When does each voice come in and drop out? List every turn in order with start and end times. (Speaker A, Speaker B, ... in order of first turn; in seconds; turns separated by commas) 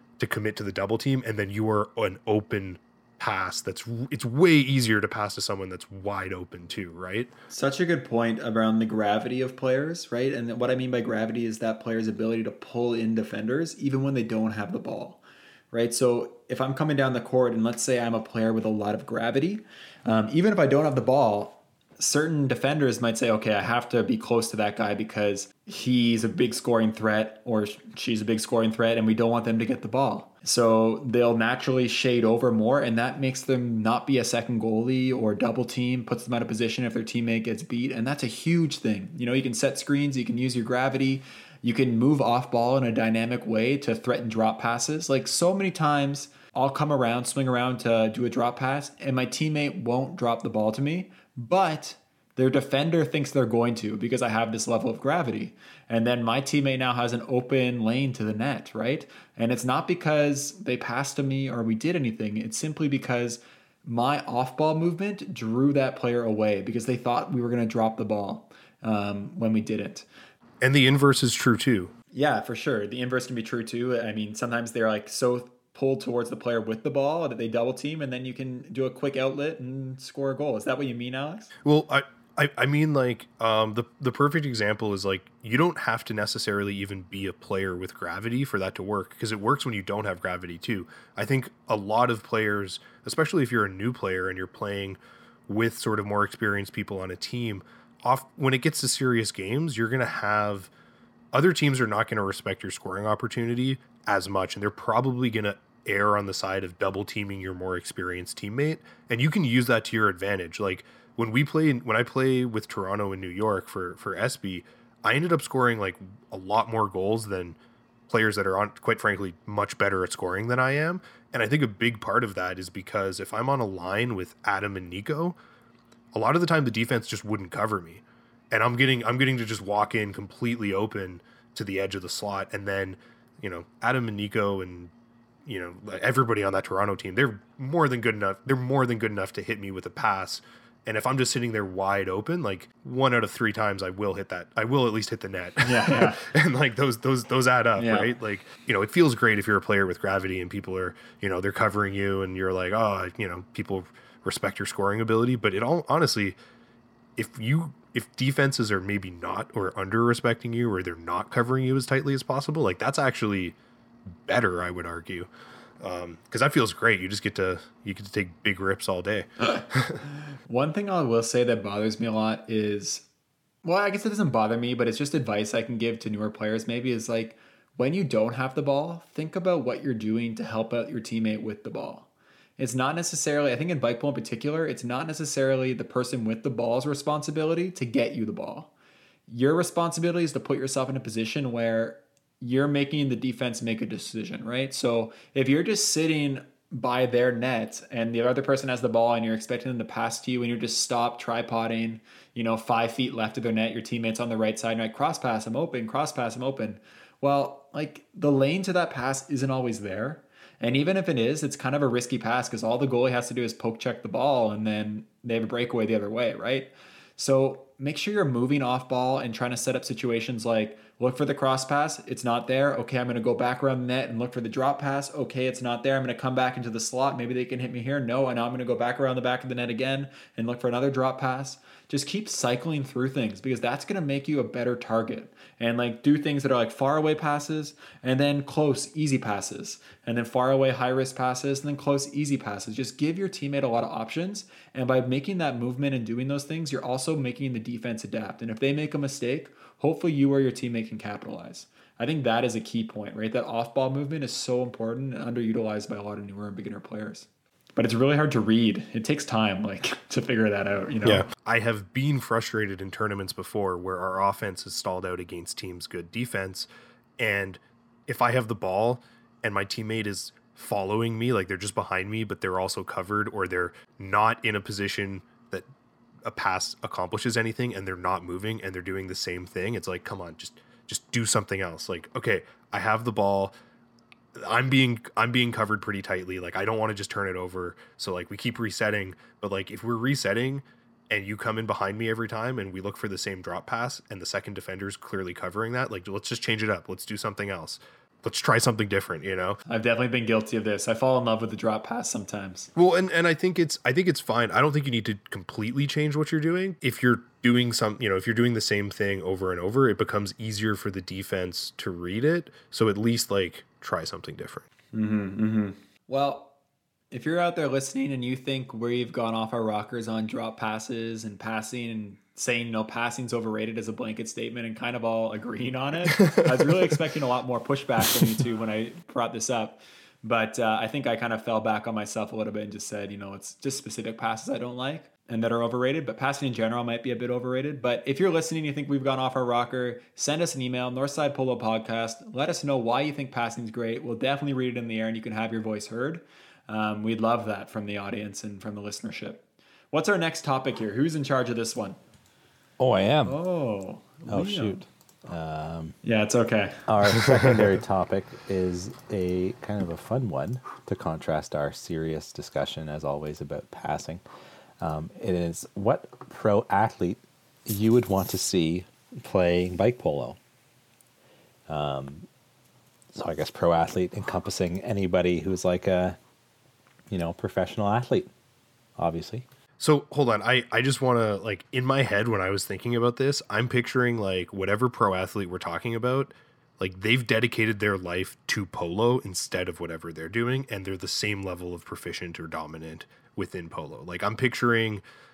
Speaker A: 0.2-7.3, Speaker B: 7.5-15.2, Speaker B: 15.7-70.1, Speaker A: 70.6-71.9, Speaker B: 72.1-81.5, Speaker A: 81.7-100.7, Speaker A: 101.3-117.6, Speaker A: 118.1-125.4, Speaker A: 126.1-134.9, Speaker A: 135.4-156.4, Speaker B: 145.6-146.2, Speaker B: 147.8-148.1, Speaker A: 157.2-163.6, Speaker A: 164.3-165.3, Speaker A: 165.8-170.0, Speaker B: 170.5-173.1, Speaker B: 173.6-188.7, Speaker B: 189.3-261.3, Speaker A: 261.0-266.7, Speaker A: 267.2-275.7, Speaker A: 276.2-283.5, Speaker A: 284.4-299.6, Speaker B: 299.7-302.7, Speaker A: 302.8-314.6, Speaker B: 314.9-316.5, Speaker B: 317.1-352.0, Speaker A: 326.1-326.4, Speaker C: 352.8-353.4, Speaker B: 353.2-354.9, Speaker C: 354.3-356.0, Speaker B: 356.0-356.9, Speaker C: 356.9-364.2, Speaker C: 364.8-370.4, Speaker C: 371.7-372.3, Speaker C: 373.1-376.2, Speaker C: 377.1-378.3, Speaker C: 379.0-379.4, Speaker A: 379.8-395.0